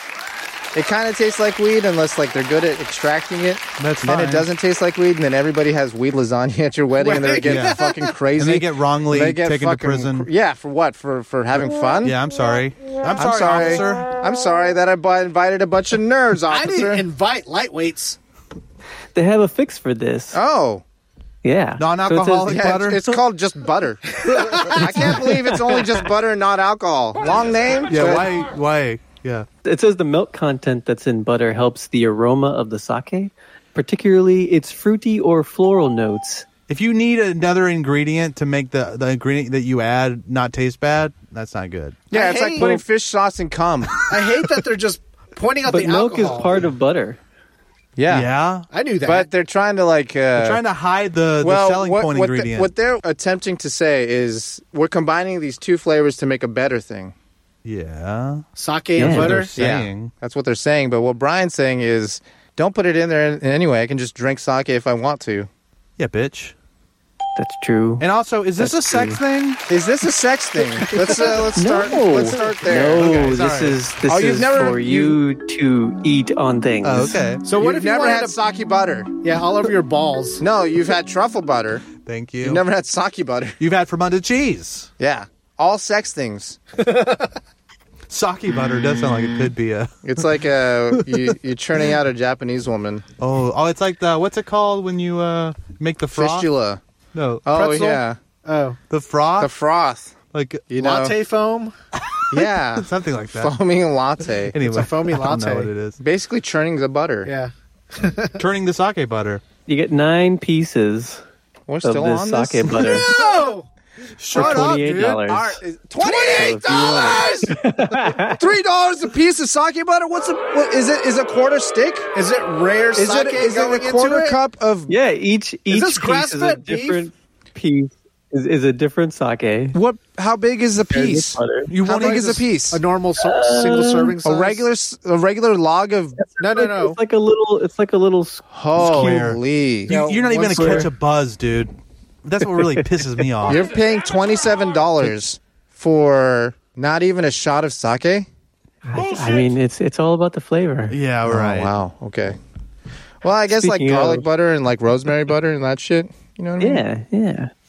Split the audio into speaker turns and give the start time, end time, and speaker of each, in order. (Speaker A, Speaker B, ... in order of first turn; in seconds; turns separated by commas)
Speaker A: 0.7-12.2, Speaker B: 3.8-4.5, Speaker C: 7.0-8.1, Speaker B: 7.4-10.3, Speaker B: 12.0-14.1, Speaker A: 13.1-17.1, Speaker C: 16.5-18.2, Speaker D: 19.1-20.4, Speaker A: 20.3-20.8, Speaker D: 21.4-22.6, Speaker B: 21.8-23.2, Speaker A: 22.4-28.3, Speaker C: 24.4-24.8, Speaker B: 27.9-29.5, Speaker D: 29.6-36.5, Speaker B: 36.7-42.0, Speaker C: 42.1-42.7, Speaker A: 42.1-44.0, Speaker C: 44.1-46.6, Speaker D: 45.7-47.2, Speaker A: 48.0-48.3, Speaker B: 48.1-48.7, Speaker C: 48.7-49.3, Speaker A: 49.0-50.6, Speaker B: 50.3-52.7, Speaker A: 51.4-57.1, Speaker B: 57.6-58.4, Speaker C: 58.5-59.5, Speaker D: 59.0-59.4, Speaker B: 59.0-60.1, Speaker A: 59.5-65.5, Speaker B: 66.0-66.5, Speaker D: 67.4-68.0, Speaker B: 68.0-69.6, Speaker D: 68.6-69.2, Speaker A: 69.7-73.3, Speaker D: 70.8-77.2, Speaker C: 71.0-72.8, Speaker B: 72.9-73.8, Speaker A: 74.0-75.2, Speaker B: 76.8-77.4, Speaker C: 77.4-78.4, Speaker A: 77.5-79.1, Speaker C: 79.2-80.4, Speaker A: 80.4-81.9, Speaker B: 82.0-82.6, Speaker A: 82.4-83.6, Speaker B: 83.6-84.9, Speaker A: 85.0-86.6, Speaker C: 86.8-87.3, Speaker B: 88.1-90.4, Speaker A: 90.0-93.0, Speaker B: 90.9-91.4, Speaker B: 93.2-96.5, Speaker A: 96.1-96.8, Speaker B: 97.1-97.5, Speaker A: 97.4-98.2, Speaker C: 97.5-98.8, Speaker B: 98.9-99.5, Speaker A: 99.4-100.2, Speaker B: 100.3-100.6, Speaker A: 100.7-101.2, Speaker C: 100.8-101.7, Speaker B: 102.1-103.6, Speaker A: 102.3-104.6, Speaker B: 104.5-106.0, Speaker C: 104.7-105.7, Speaker A: 106.0-107.3, Speaker C: 107.2-108.4, Speaker B: 108.4-109.4, Speaker D: 109.7-111.2, Speaker A: 111.7-112.8, Speaker D: 111.8-113.1, Speaker C: 112.8-113.7, Speaker B: 114.2-115.2, Speaker D: 114.3-115.6, Speaker A: 115.2-117.5, Speaker D: 116.1-118.4, Speaker A: 118.3-122.1, Speaker C: 122.1-124.4, Speaker A: 122.9-124.9, Speaker D: 124.9-129.8, Speaker C: 125.7-127.0, Speaker A: 129.7-132.8, Speaker D: 130.9-131.7, Speaker B: 131.7-132.4, Speaker C: 131.8-134.7, Speaker D: 133.2-134.1, Speaker A: 134.2-136.2, Speaker D: 136.2-139.3, Speaker C: 136.4-137.0, Speaker A: 138.5-140.9, Speaker B: 138.8-141.7, Speaker D: 140.4-140.9, Speaker B: 142.2-143.7, Speaker A: 143.4-148.3, Speaker D: 148.9-150.9, Speaker C: 149.0-149.4, Speaker B: 150.9-151.7, Speaker A: 151.3-152.4, Speaker A: 153.2-156.8, Speaker D: 153.5-154.3, Speaker D: 156.6-157.5